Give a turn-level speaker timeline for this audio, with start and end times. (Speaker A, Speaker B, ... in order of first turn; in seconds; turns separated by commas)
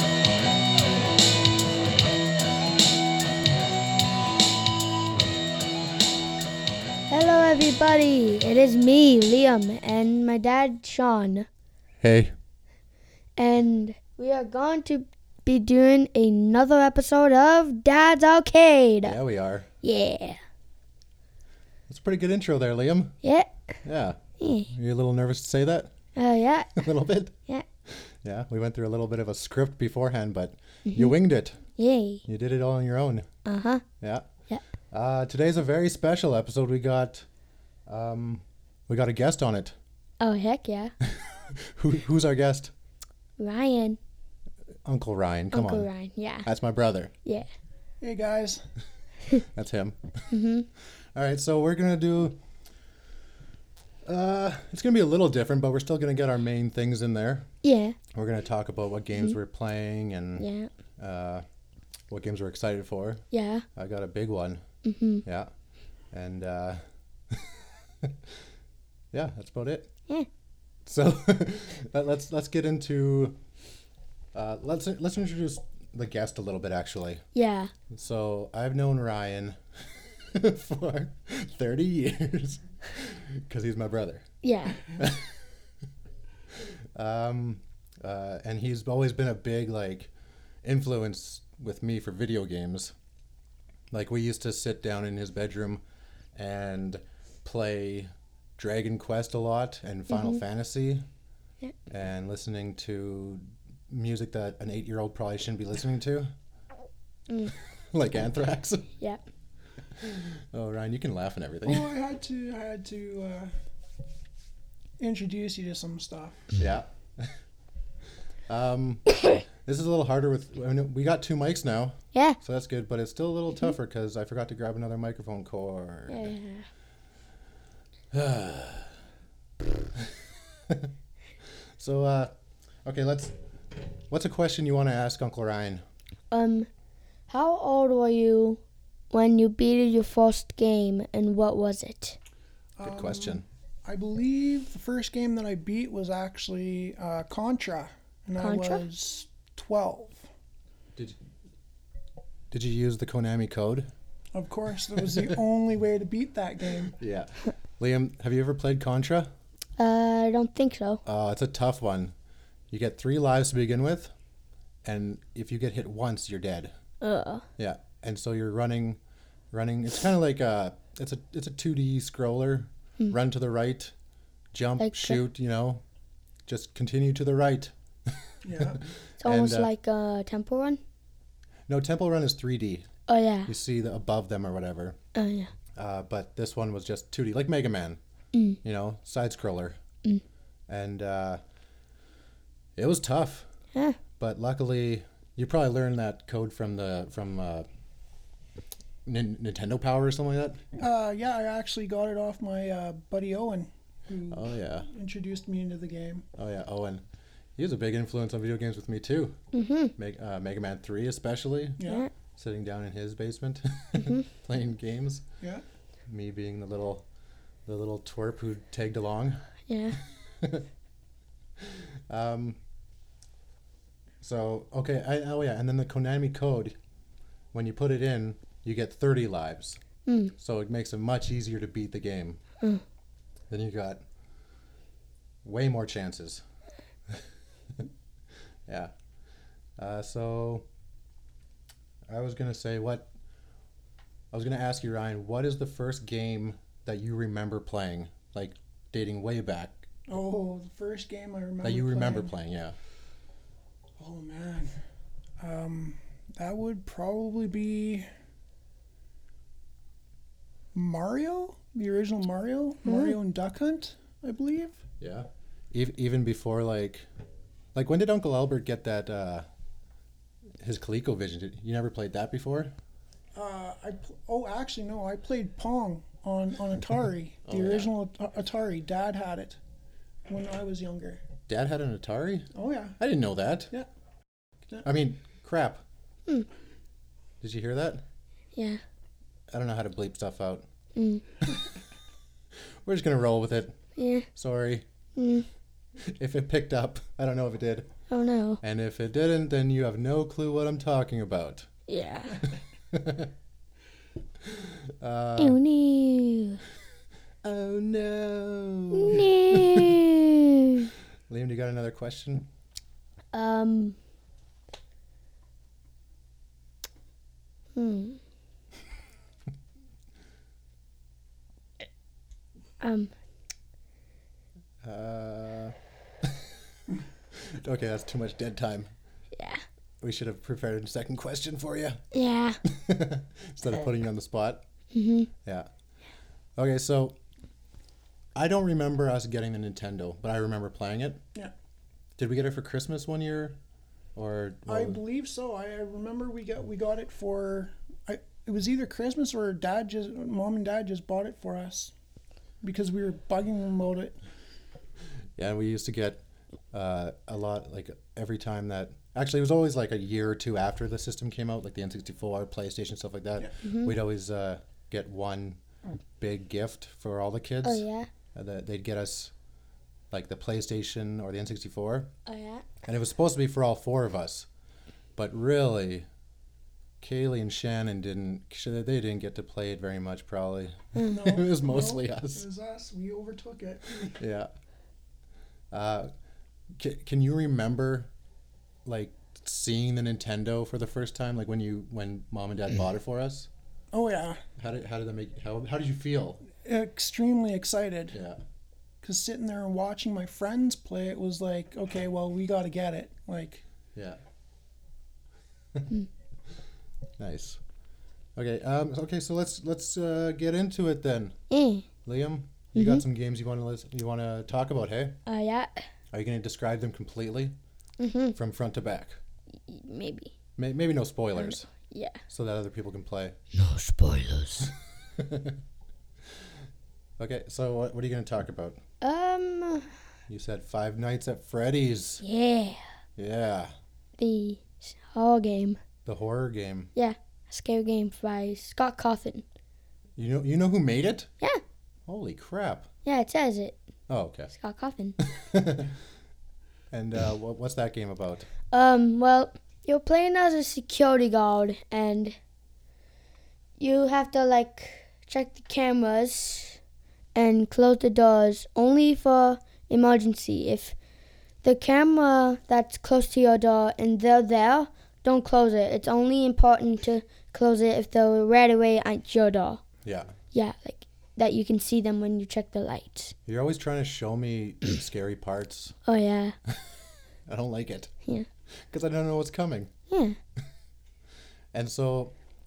Speaker A: 7.1-11.5, Speaker B: 12.0-12.3, Speaker A: 13.4-19.1, Speaker B: 19.0-19.7, Speaker A: 19.8-20.4, Speaker B: 21.9-23.1, Speaker A: 23.2-23.5, Speaker B: 23.8-25.9, Speaker A: 24.4-24.7, Speaker A: 26.1-26.9, Speaker B: 26.8-27.3, Speaker B: 27.9-31.6, Speaker A: 30.9-31.1, Speaker A: 31.8-32.2, Speaker B: 32.2-33.2, Speaker A: 33.4-33.8, Speaker B: 34.0-34.3, Speaker B: 34.9-37.2, Speaker B: 37.9-39.7, Speaker A: 40.2-40.9, Speaker B: 41.0-42.7, Speaker A: 43.4-44.0, Speaker B: 44.8-45.9, Speaker A: 45.5-46.5, Speaker B: 46.4-47.1, Speaker C: 48.0-48.6, Speaker B: 49.5-50.2, Speaker A: 50.3-50.7, Speaker B: 51.1-52.4, Speaker B: 54.0-57.5, Speaker A: 57.6-58.0, Speaker B: 58.1-61.4, Speaker A: 60.4-60.7, Speaker B: 62.1-63.2, Speaker A: 63.3-63.6, Speaker B: 63.8-64.6, Speaker A: 64.8-65.2, Speaker B: 65.2-65.5, Speaker B: 66.1-68.3, Speaker B: 69.1-69.9, Speaker B: 70.8-73.4, Speaker B: 74.3-77.2, Speaker A: 77.3-77.7, Speaker B: 77.9-79.6, Speaker B: 80.3-84.2, Speaker A: 84.4-84.8, Speaker B: 84.9-85.5, Speaker B: 86.6-90.1, Speaker B: 90.6-92.9, Speaker B: 93.9-95.8, Speaker B: 96.3-101.0, Speaker A: 100.1-100.4, Speaker B: 101.9-106.3, Speaker B: 107.9-108.9, Speaker B: 110.0-111.9, Speaker C: 111.7-113.5, Speaker C: 115.0-116.5, Speaker B: 116.5-117.3, Speaker B: 118.5-126.3, Speaker A: 126.1-126.7, Speaker B: 128.1-128.9, Speaker B: 129.9-130.9, Speaker B: 131.8-132.3, Speaker B: 132.8-133.3, Speaker B: 134.1-135.8, Speaker A: 136.3-136.7, Speaker A: 137.3-138.6, Speaker A: 139.1-142.2, Speaker C: 142.8-150.3, Speaker B: 142.8-143.4, Speaker A: 148.4-148.8, Speaker B: 152.5-153.9, Speaker C: 154.3-157.0, Speaker B: 154.9-155.4, Speaker B: 157.0-159.3, Speaker A: 159.8-161.0, Speaker B: 161.0-162.1, Speaker B: 162.7-164.1, Speaker B: 164.8-166.7, Speaker A: 167.0-167.4, Speaker B: 167.6-169.0, Speaker B: 169.5-173.9, Speaker B: 174.5-175.8, Speaker A: 174.8-175.2, Speaker B: 176.4-179.7, Speaker C: 178.4-178.8, Speaker A: 179.2-180.8, Speaker B: 181.7-182.8, Speaker A: 183.1-183.5, Speaker B: 183.4-185.0, Speaker A: 185.1-185.5, Speaker B: 185.8-188.0, Speaker B: 188.6-189.8, Speaker B: 190.7-191.4, Speaker B: 192.8-193.5, Speaker B: 194.2-197.7, Speaker B: 199.1-200.6, Speaker C: 200.8-206.2, Speaker B: 204.3-204.9, Speaker B: 206.3-207.0, Speaker B: 207.6-209.4, Speaker A: 209.5-209.9, Speaker B: 209.9-211.8, Speaker C: 211.8-212.1, Speaker B: 212.3-215.2, Speaker A: 213.9-214.2, Speaker B: 216.1-217.0, Speaker B: 217.7-219.4, Speaker A: 219.7-220.0, Speaker B: 220.4-220.7, Speaker B: 221.6-222.6, Speaker B: 224.2-226.7, Speaker B: 227.5-229.8, Speaker A: 230.1-230.3, Speaker B: 230.3-232.4, Speaker B: 233.5-234.0, Speaker B: 235.4-236.4, Speaker B: 238.7-238.9, Speaker B: 239.8-240.6, Speaker B: 242.1-243.1, Speaker B: 244.3-249.9, Speaker C: 250.1-252.3, Speaker B: 251.6-252.8, Speaker C: 254.0-254.7, Speaker C: 255.4-258.1, Speaker C: 260.7-264.8, Speaker A: 262.8-263.1, Speaker B: 265.0-267.1, Speaker B: 267.7-269.4, Speaker B: 270.6-272.7, Speaker C: 273.3-279.6, Speaker B: 277.5-277.9, Speaker C: 280.3-281.2, Speaker B: 281.5-283.7, Speaker C: 282.5-283.0, Speaker B: 284.8-285.8, Speaker B: 287.4-288.0, Speaker B: 289.5-290.6, Speaker A: 290.9-291.2, Speaker B: 292.8-293.8, Speaker A: 294.0-294.2, Speaker B: 294.3-294.9, Speaker A: 295.1-295.4, Speaker B: 296.0-297.9, Speaker A: 298.1-298.6, Speaker B: 298.6-301.7, Speaker A: 301.9-302.4, Speaker B: 302.9-303.3, Speaker B: 304.4-305.6, Speaker A: 305.4-306.6, Speaker B: 307.4-310.0, Speaker A: 308.9-310.9, Speaker B: 311.3-312.5, Speaker A: 313.3-313.9, Speaker A: 317.8-318.2, Speaker A: 322.8-323.1, Speaker B: 324.8-326.6, Speaker B: 327.3-328.9, Speaker A: 329.4-329.6, Speaker B: 330.0-332.0, Speaker A: 332.1-332.6, Speaker B: 332.6-334.6, Speaker A: 334.9-335.3, Speaker B: 336.6-337.1, Speaker B: 338.4-341.2, Speaker B: 342.2-343.6, Speaker B: 344.1-345.0, Speaker C: 344.7-351.9, Speaker C: 352.6-354.1, Speaker B: 355.4-356.2, Speaker B: 356.7-365.6, Speaker A: 363.6-363.9, Speaker B: 366.2-369.3, Speaker A: 367.6-368.1, Speaker B: 370.1-372.1, Speaker A: 372.2-372.6, Speaker B: 372.8-374.5, Speaker B: 375.1-376.1, Speaker B: 377.0-382.4, Speaker C: 381.1-384.2, Speaker B: 384.2-384.5, Speaker B: 385.7-386.1, Speaker B: 386.7-388.1, Speaker B: 388.8-393.5, Speaker C: 393.9-394.4, Speaker B: 394.6-396.4, Speaker C: 396.6-398.2, Speaker B: 398.1-398.4, Speaker C: 399.0-403.6, Speaker B: 407.2-407.6, Speaker B: 408.4-411.4, Speaker A: 411.5-411.8, Speaker B: 412.0-415.2, Speaker A: 412.7-413.0, Speaker A: 415.2-415.8, Speaker B: 416.1-417.5, Speaker A: 418.0-418.3, Speaker B: 418.3-419.2, Speaker A: 419.7-420.3, Speaker B: 420.6-421.7, Speaker A: 421.4-422.2, Speaker B: 422.3-423.4, Speaker A: 423.5-424.7, Speaker B: 424.6-425.6, Speaker B: 427.2-428.8, Speaker A: 429.0-429.9, Speaker B: 430.3-432.2, Speaker A: 432.2-432.8, Speaker B: 433.2-433.7, Speaker A: 434.2-435.8, Speaker B: 436.1-436.9, Speaker A: 436.9-439.4, Speaker B: 440.2-441.3, Speaker B: 442.1-442.9, Speaker A: 443.0-443.8, Speaker B: 444.1-444.5, Speaker A: 444.5-445.2, Speaker B: 445.2-445.9, Speaker B: 446.9-448.5, Speaker A: 448.7-452.4, Speaker A: 453.8-456.8, Speaker A: 457.3-460.9, Speaker A: 461.6-469.8, Speaker B: 470.0-470.3, Speaker A: 470.5-473.3, Speaker B: 473.5-475.9, Speaker A: 476.0-476.5, Speaker B: 477.4-478.1, Speaker B: 478.9-479.9, Speaker A: 480.1-480.4, Speaker B: 481.7-482.3